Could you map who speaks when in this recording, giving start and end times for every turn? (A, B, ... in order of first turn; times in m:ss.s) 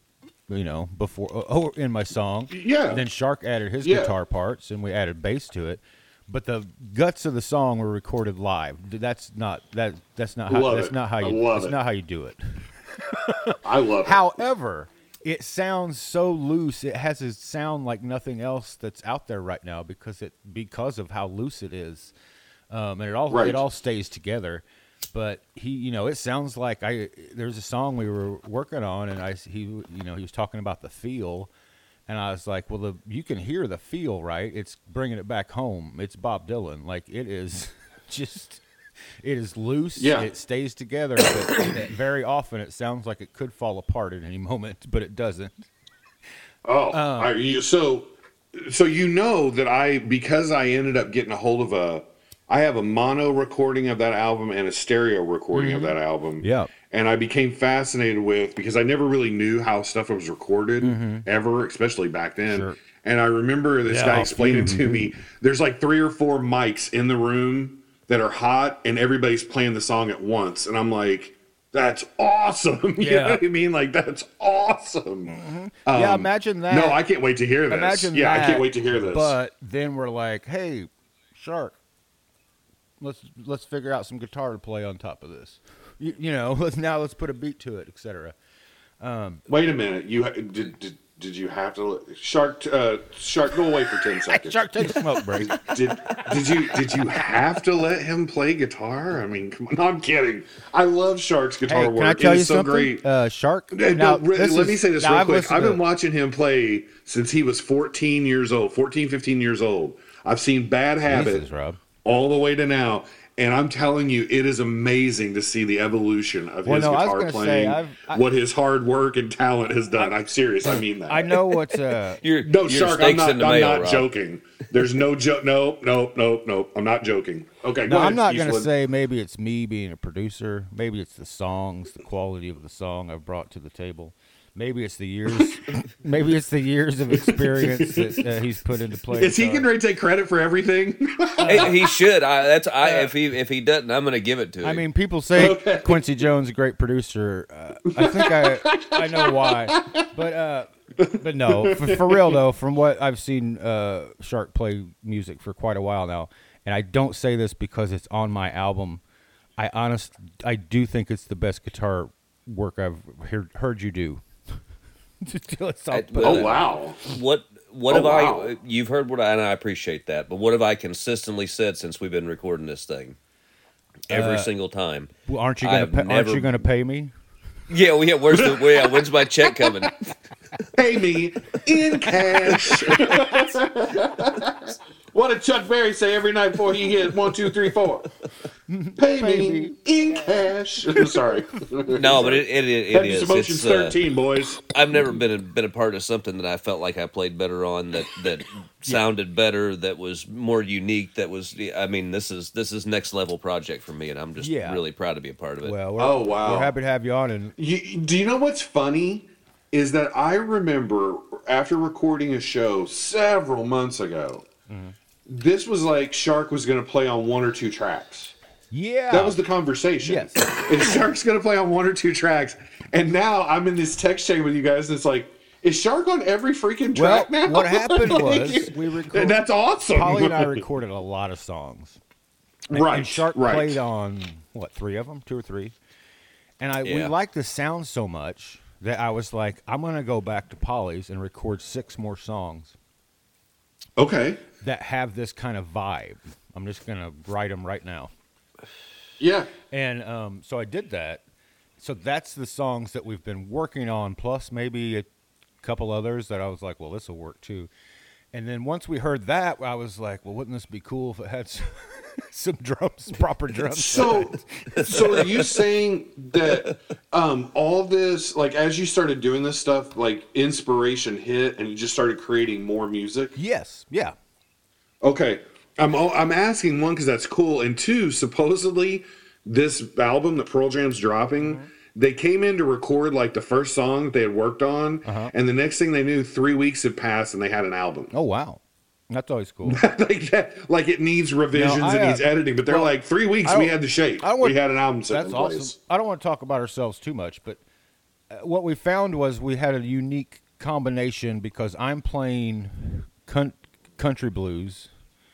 0:00.5-0:22.1 A
0:02.5-0:03.0 B
0:03.8-0:04.2 B
0:10.5-0:11.8 B
0:13.6-0:14.2 B
0:22.7-0:31.5 A
0:23.3-0:23.6 B
0:32.1-0:38.6 A
0:39.2-0:45.7 A
0:40.0-0:40.3 B
0:46.6-1:15.3 B
0:46.9-0:47.4 A
0:55.5-0:56.7 A
1:00.8-1:01.3 A
1:02.5-1:02.8 A
1:03.9-1:05.2 A
1:13.0-1:13.4 A
1:15.3-1:17.0 A
1:15.9-1:19.4 B
1:17.7-1:21.8 A
1:23.0-1:28.4 A
1:29.0-1:29.4 A
1:29.5-1:43.0 B
1:34.3-1:37.4 A
1:41.7-1:45.8 A
1:43.7-1:51.4 B
1:51.1-1:51.8 A
1:52.0-2:01.5 B
1:56.6-1:58.2 A
2:01.0-2:02.2 A
2:02.2-2:04.1 C
2:02.4-2:08.7 B
2:07.8-2:19.7 A
2:17.1-2:18.3 B
2:19.1-2:21.9 B
2:21.4-2:21.7 A
2:21.5-2:24.8 C
2:24.6-2:39.0 A
2:25.4-2:26.2 B
2:28.0-2:30.0 B
2:31.0-2:32.4 B
2:39.6-2:44.2 A
2:45.2-2:46.6 A
2:45.9-2:53.2 C
2:46.2-2:47.1 B
2:47.9-2:48.5 B
2:54.1-2:54.5 A
2:54.1-2:55.1 C
2:55.3-2:57.1 A
2:55.6-2:56.6 C
2:57.7-3:00.1 C
2:58.3-2:58.9 B
2:59.6-2:59.8 B
3:00.8-3:08.1 B
3:02.1-3:02.8 A
3:08.7-3:11.3 A
3:09.0-3:15.0 B
3:12.0-3:14.0 C
3:14.7-3:25.8 C
3:24.4-3:24.8 A
3:25.6-3:27.6 A
3:26.0-3:26.8 B
3:27.6-3:34.4 B
3:34.7-3:35.0 A
3:35.3-3:38.4 B
3:38.7-3:39.4 A
3:39.1-3:50.6 B
3:40.0-3:40.7 A
3:47.0-3:52.0 A
3:52.7-3:53.8 B
3:52.7-3:55.8 A
3:56.6-4:02.8 A
3:56.8-3:57.1 C
4:04.0-4:04.4 B
4:04.6-4:08.1 A
4:09.2-4:09.5 B
4:09.7-4:11.2 A
4:11.8-4:15.1 A
4:15.6-4:17.7 A
4:18.3-4:25.4 A
4:23.7-4:33.4 B
4:33.4-4:34.2 A
4:35.0-4:48.1 B
4:41.4-4:41.7 A
4:45.0-4:45.3 A
4:48.1-4:49.8 A
4:49.6-4:55.8 B
4:51.5-4:52.9 A
4:53.4-4:57.6 A
4:58.3-5:04.9 A